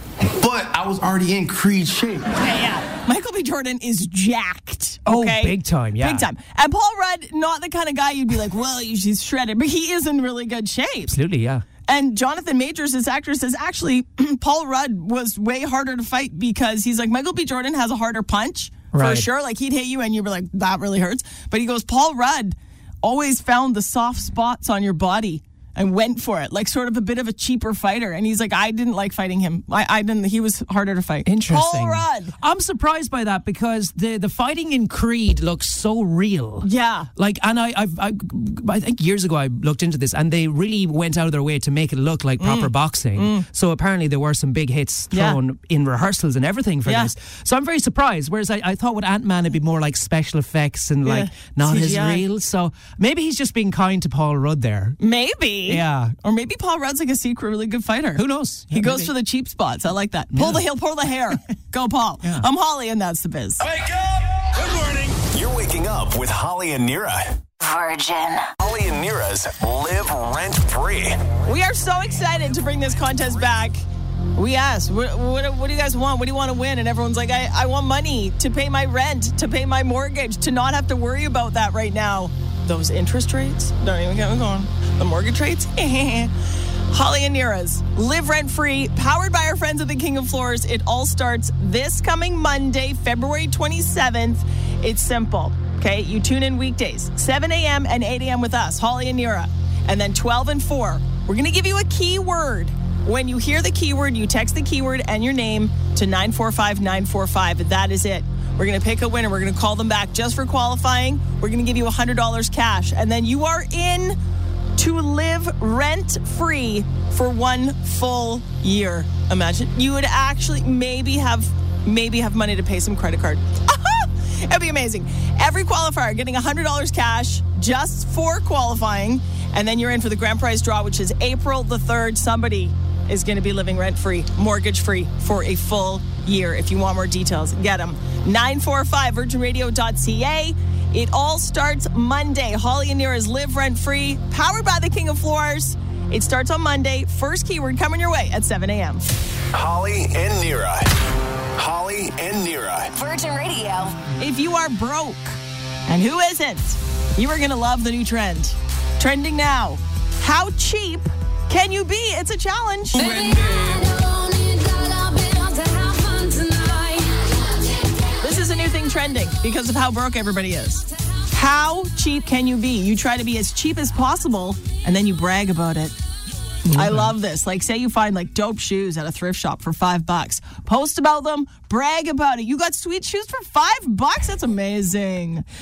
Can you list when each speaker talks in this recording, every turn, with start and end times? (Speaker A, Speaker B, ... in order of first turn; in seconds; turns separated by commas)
Speaker A: 0.4-2.3, Speaker B: 2.4-11.2, Speaker C: 5.1-6.3, Speaker C: 11.1-11.6, Speaker B: 11.9-32.3, Speaker C: 18.9-19.3, Speaker C: 31.3-55.0, Speaker B: 36.6-37.1, Speaker B: 42.4-43.5, Speaker B: 45.1-45.4, Speaker B: 46.9-47.1, Speaker B: 51.0-52.2, Speaker B: 55.0-63.6, Speaker C: 55.7-56.1, Speaker C: 58.2-59.1, Speaker C: 60.3-60.6, Speaker C: 62.2-62.5, Speaker D: 63.7-67.4, Speaker E: 67.6-68.5, Speaker D: 68.6-71.2, Speaker B: 71.5-73.8, Speaker B: 74.3-86.3, Speaker B: 86.9-114.2, Speaker B: 114.8-149.0, Speaker D: 149.5-150.9, Speaker D: 151.6-152.9, Speaker E: 152.9-154.0, Speaker B: 154.2-163.1, Speaker E: 162.9-167.4, Speaker B: 168.2-175.9, Speaker C: 176.7-177.2, Speaker B: 176.7-185.4